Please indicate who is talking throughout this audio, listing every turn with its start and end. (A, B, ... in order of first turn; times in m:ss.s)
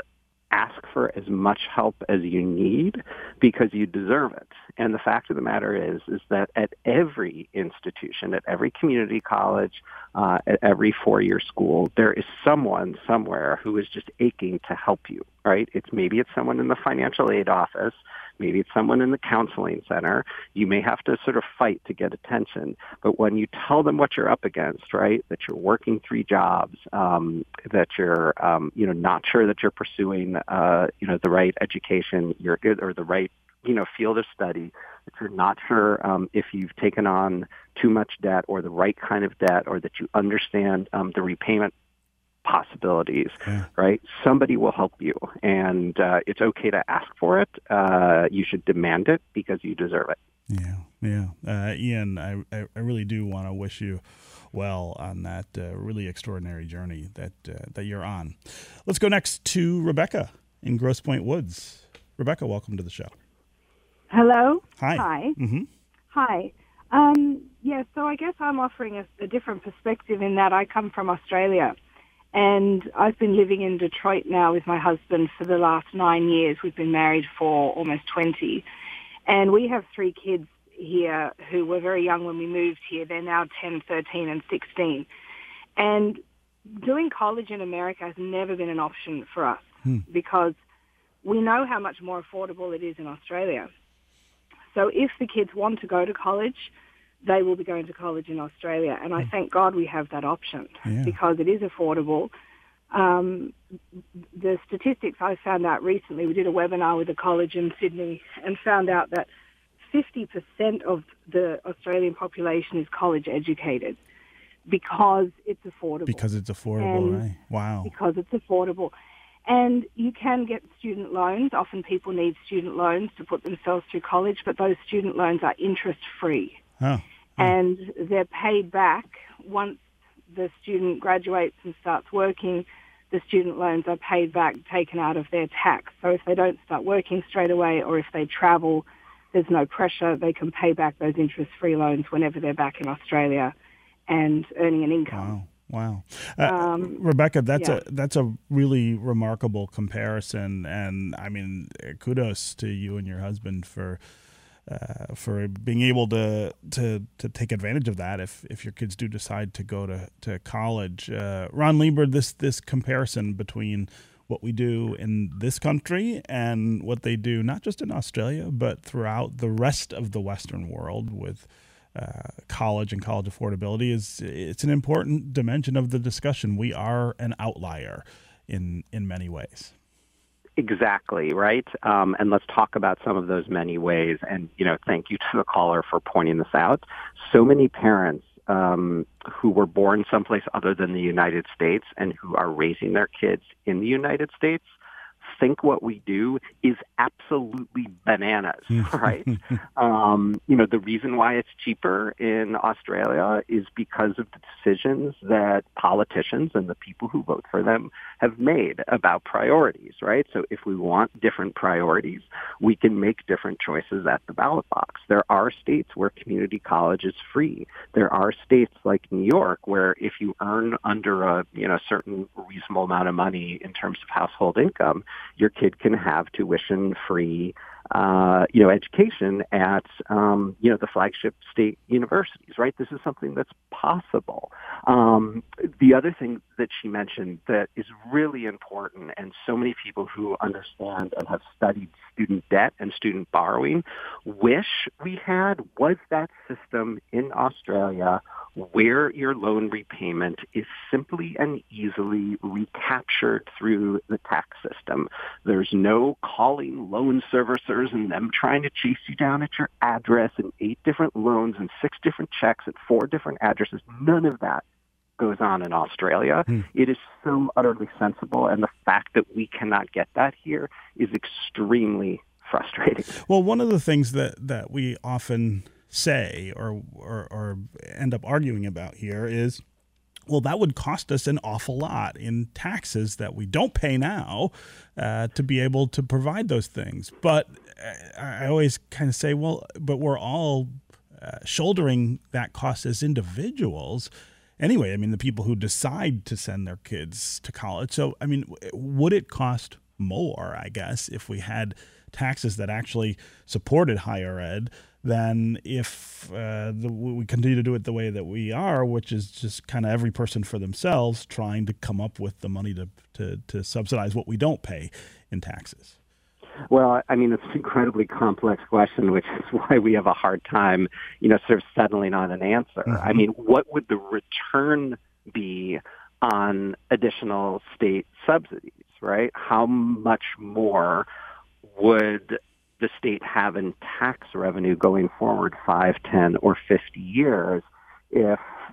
0:00.5-0:41.7 A
0:42.4-0:50.2 A
0:50.5-1:03.1 B
1:04.1-1:05.4 C
1:04.8-1:05.7 B
1:06.1-1:11.8 C
1:12.3-1:18.6 C
1:19.3-1:25.1 C
1:25.8-1:30.6 C
1:31.2-1:33.7 C
1:34.7-1:36.7 C
1:37.2-1:42.3 C
1:40.8-1:41.1 B
1:42.9-1:43.5 C
1:44.3-1:49.3 C
1:49.9-1:54.0 C
1:54.6-1:56.2 C
1:56.1-1:57.9 B
1:56.8-1:57.2 C
1:57.8-1:58.9 C
1:59.4-2:06.6 C
2:06.8-2:07.5 B
2:07.4-2:23.5 C
2:24.1-2:25.4 C
2:25.1-2:34.0 B
2:26.4-2:27.0 C
2:27.5-2:27.8 C
2:34.7-2:59.7 B
3:00.6-4:24.6 A
3:18.8-3:19.3 B
4:25.2-4:33.2 A
4:33.2-4:39.6 B
4:40.3-5:16.0 B
5:16.7-5:31.1 A
5:22.9-5:23.2 B
5:31.6-5:38.4 A